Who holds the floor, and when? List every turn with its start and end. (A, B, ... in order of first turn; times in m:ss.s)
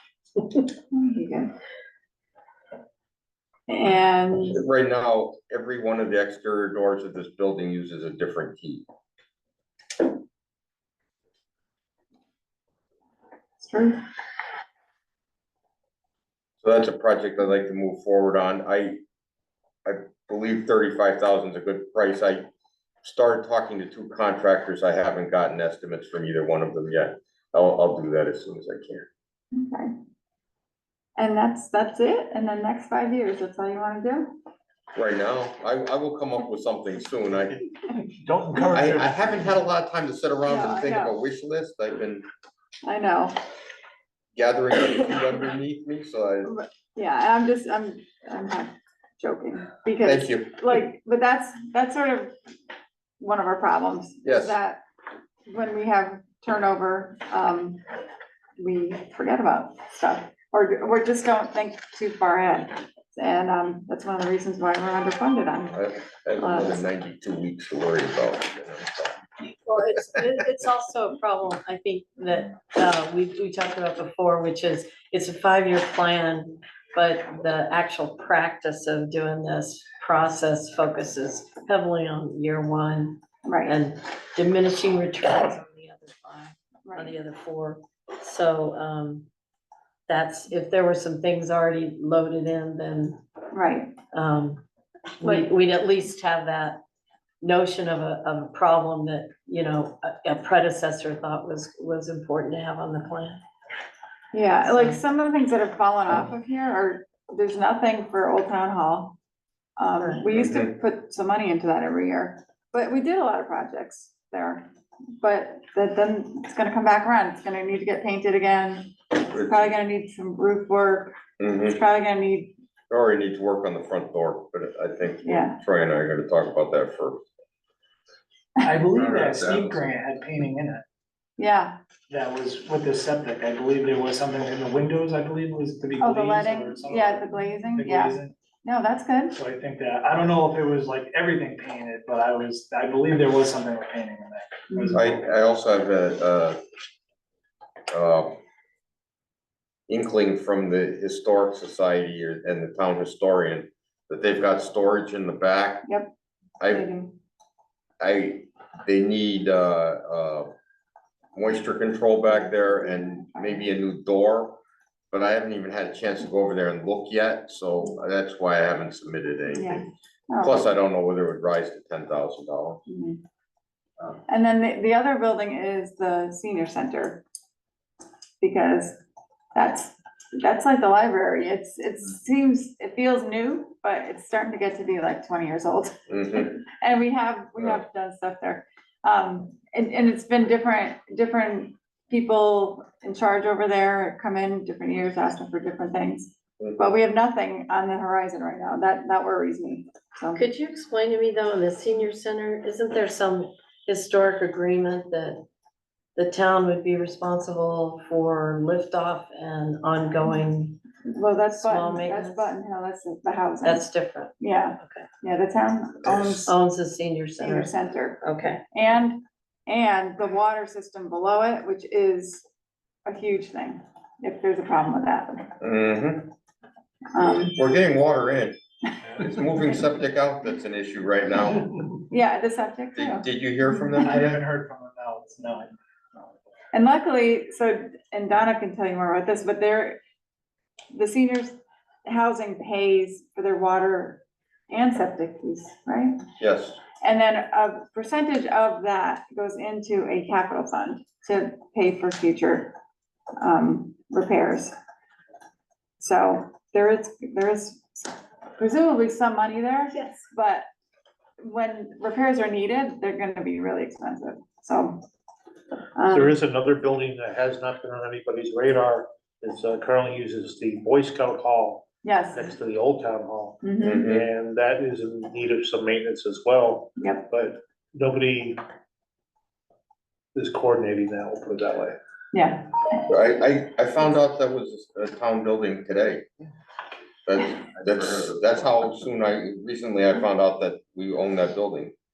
0:00.9-0:01.5 A
0:03.7-0:04.6 A
0:04.5-0:08.8 B
0:13.6-0:14.0 A
0:16.6-0:19.0 B
0:19.8-0:22.5 B
0:23.0-0:29.1 B
0:29.5-0:29.9 A
0:31.2-0:34.4 A
0:34.9-0:37.6 B
0:38.1-0:38.9 C
0:38.7-0:42.2 B
0:38.8-0:39.5 D
0:40.5-0:41.2 A
0:42.8-0:43.4 A
0:44.3-0:46.6 B
0:46.4-0:52.3 A
0:50.0-0:50.8 B
0:53.2-0:54.8 A
0:54.2-0:54.6 B
0:55.5-0:57.8 A
0:58.6-1:05.8 A
1:05.7-1:09.2 B
1:06.4-1:06.8 A
1:09.4-1:29.3 E
1:23.4-1:23.7 A
1:26.8-1:27.2 A
1:30.1-1:33.2 E
1:33.5-1:34.0 A
1:34.1-1:34.6 E
1:35.2-1:36.8 E
1:37.4-1:43.4 E
1:44.3-1:49.1 A
1:44.6-1:45.0 E
1:49.8-1:54.7 A
1:50.0-1:50.2 E
1:50.3-1:50.7 B
1:55.2-2:01.1 A
1:59.3-1:59.7 B
2:01.4-2:01.8 B
2:01.7-2:02.6 A
2:02.9-2:07.2 B
2:05.2-2:05.6 A
2:08.6-2:10.8 C
2:09.0-2:09.8 B
2:11.4-2:11.8 A
2:12.1-2:18.3 C
2:16.0-2:19.3 A
2:19.3-2:25.2 C
2:24.9-2:26.6 B
2:27.9-2:28.4 B
2:29.9-2:35.9 B
2:35.8-2:36.1 A
2:36.6-2:36.9 B
2:36.7-2:37.1 A
2:38.0-2:40.5 B
2:41.4-2:44.6 B
2:42.3-2:43.7 A
2:45.1-2:52.8 B
2:49.5-2:50.7 A
2:52.9-2:53.2 A
2:54.3-2:57.2 A
2:58.4-2:59.0 A
2:59.6-3:20.4 A
3:06.1-3:06.5 B
3:20.3-3:25.4 E
3:26.2-3:30.8 E
3:31.0-3:33.8 A
3:31.6-3:32.5 E
3:33.6-3:35.1 E
3:34.4-3:36.5 A
3:36.4-3:38.6 E
3:37.4-3:42.4 A
3:43.1-3:45.5 A
3:45.6-3:46.3 B
3:47.1-3:47.5 A
3:47.2-3:48.6 B
3:49.2-3:51.7 B
3:52.1-3:53.3 A
3:53.0-3:54.4 B
3:54.0-3:55.7 C
3:56.7-4:00.0 A
4:00.9-4:06.2 A
4:06.4-4:06.8 B
4:07.0-4:12.8 A
4:13.4-4:14.7 A
4:16.0-4:20.6 A
4:21.4-4:25.0 A
4:25.9-4:26.3 A
4:26.1-4:38.6 D
4:32.0-4:32.5 A
4:33.6-4:34.1 A
4:33.8-4:34.3 B
4:37.0-4:37.2 A
4:40.3-4:42.0 D
4:42.3-4:42.7 A
4:43.1-4:46.3 B
4:47.2-4:51.9 B